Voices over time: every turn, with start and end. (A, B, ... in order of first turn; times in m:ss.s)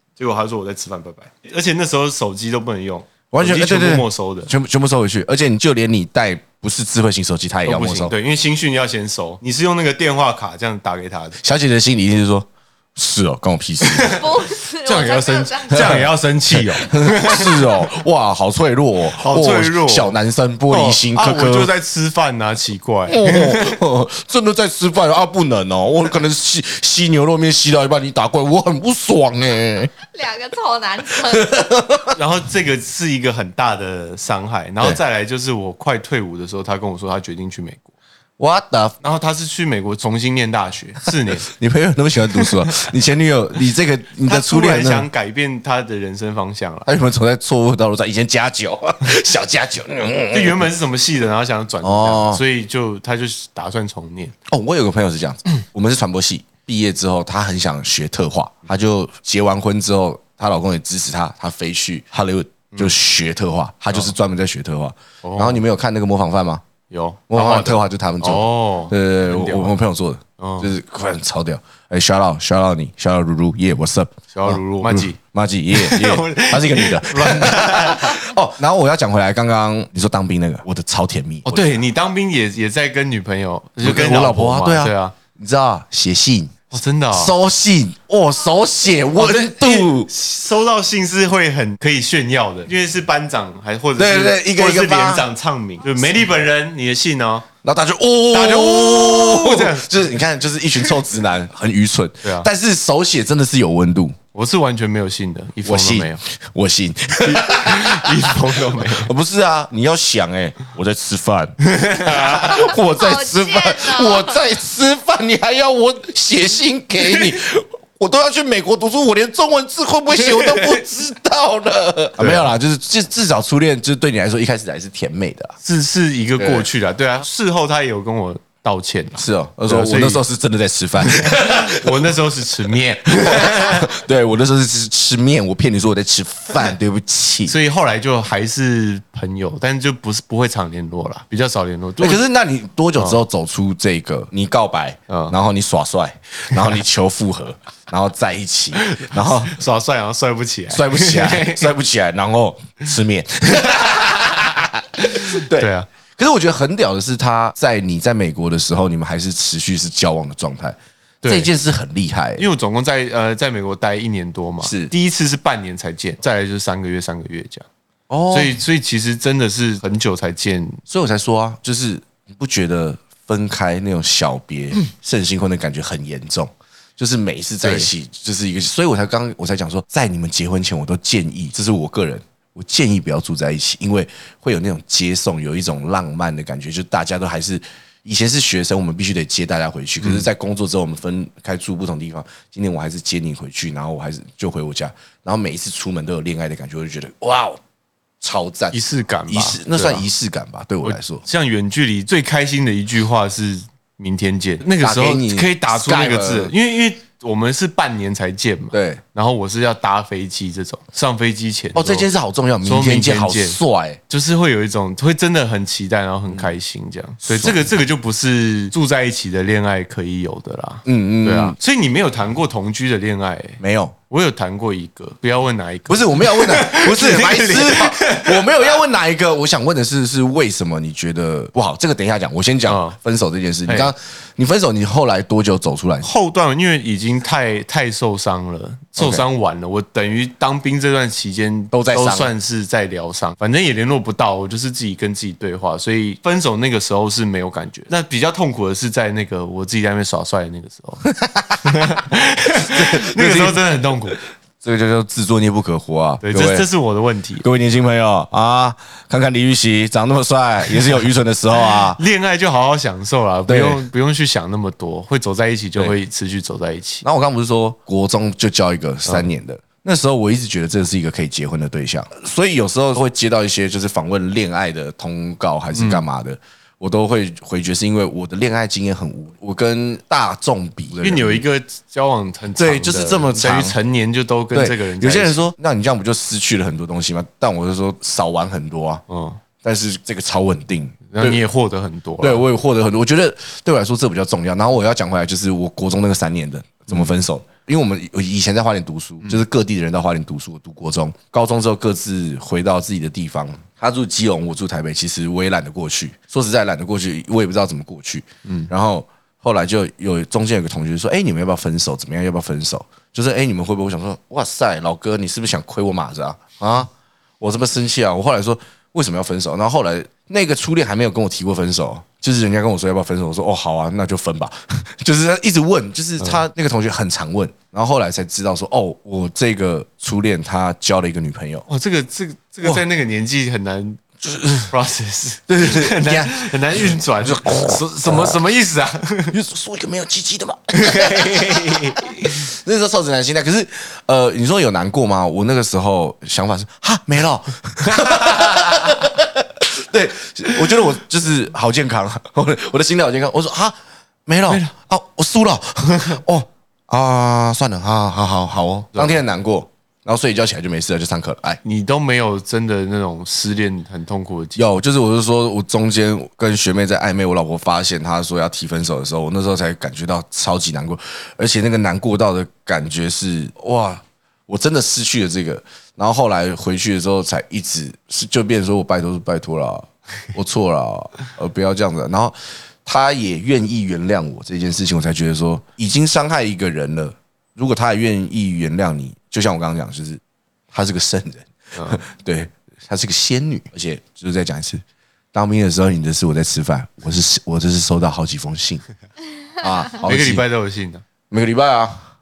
0:00.2-0:04.5 A
0:03.3-0:08.1 B
0:07.6-0:11.4 A
0:11.4-0:14.2 B
0:13.8-0:17.8 A
0:14.0-0:16.0 C
0:15.7-0:21.7 B
0:19.1-0:20.2 A
0:20.7-0:23.8 A
0:23.1-0:29.9 B
0:30.1-0:31.6 C
0:31.2-0:32.1 B
0:32.1-0:37.9 A
0:38.4-0:38.9 B
0:39.0-0:41.5 A
0:41.4-0:45.1 B
0:42.4-0:42.9 A
0:44.2-0:46.9 A
0:46.8-0:50.6 B
0:50.3-0:54.3 A
0:51.8-0:52.4 B
0:54.5-1:06.6 B
1:05.2-1:05.6 A
1:06.9-1:09.8 A
1:07.3-1:21.8 B
1:10.4-1:10.7 A
1:14.3-1:15.2 A
1:15.7-1:18.2 A
1:21.4-1:25.2 A
1:23.8-1:26.5 B
1:26.7-1:27.3 A
1:27.1-1:30.1 B
1:29.2-1:37.5 A
1:34.0-1:35.3 B
1:37.6-1:44.2 B
1:38.3-1:39.9 A
1:42.2-1:42.5 A
1:44.3-1:46.2 A
1:45.6-2:05.6 B
1:47.2-1:49.1 A
1:51.7-1:52.5 A
1:52.6-1:54.4 C
2:00.2-2:00.7 A
2:02.2-2:02.5 A
2:05.6-2:10.2 A
2:06.4-2:06.6 B
2:09.2-2:12.0 B
2:11.0-2:13.9 A
2:13.1-2:17.5 B
2:17.5-2:22.2 A
2:22.0-2:29.5 B
2:23.0-2:23.2 A
2:25.1-2:25.3 A
2:28.8-2:31.7 A
2:30.7-2:42.4 B
2:35.0-2:35.9 A
2:41.2-2:41.5 A
2:42.4-2:47.6 A
2:44.6-2:44.9 B
2:48.1-2:48.6 B
2:48.3-2:50.8 A
2:50.9-3:17.6 B
2:57.6-2:57.9 A
3:10.0-3:10.2 A
3:18.2-3:18.8 B
3:18.7-3:20.0 A
3:19.3-3:21.2 B
3:20.8-3:32.1 A
3:24.8-3:26.5 B
3:28.7-3:29.0 B
3:31.7-3:34.0 B
3:32.6-3:48.4 A
3:37.2-3:37.6 B
3:40.8-3:41.6 B
3:43.6-3:43.9 B
3:45.9-3:56.1 B
3:52.7-3:53.0 A
3:53.7-3:53.9 A
3:56.0-4:11.0 A
3:59.0-3:59.2 B
4:01.7-4:02.3 B
4:11.2-4:11.6 B
4:11.6-4:14.2 A
4:12.6-4:13.6 B
4:14.6-4:16.7 B
4:16.2-4:17.4 A
4:17.4-4:22.0 B
4:21.7-4:27.0 A
4:23.5-4:23.8 B
4:27.0-4:41.4 B
4:35.7-4:36.0 A
4:41.0-4:45.4 A
4:42.6-4:43.8 B
4:44.5-4:49.0 B
4:49.1-4:49.4 A
4:49.6-4:51.4 B
4:51.1-4:52.4 A
4:52.2-5:31.6 B
5:08.4-5:08.7 A
5:31.7-5:34.1 A
5:34.2-5:34.7 B
5:34.7-5:39.4 A
5:35.5-5:38.4 B
5:39.3-6:01.6 B
5:40.7-5:42.4 A
5:47.8-5:49.1 A
5:50.5-5:50.8 A
5:55.8-5:56.2 A
6:01.6-6:04.7 A
6:04.5-6:30.2 B
6:30.7-6:34.8 B
6:31.8-6:32.0 A
6:35.3-6:38.8 B
6:39.6-6:40.4 B
6:40.0-6:41.0 A
6:41.3-6:42.0 B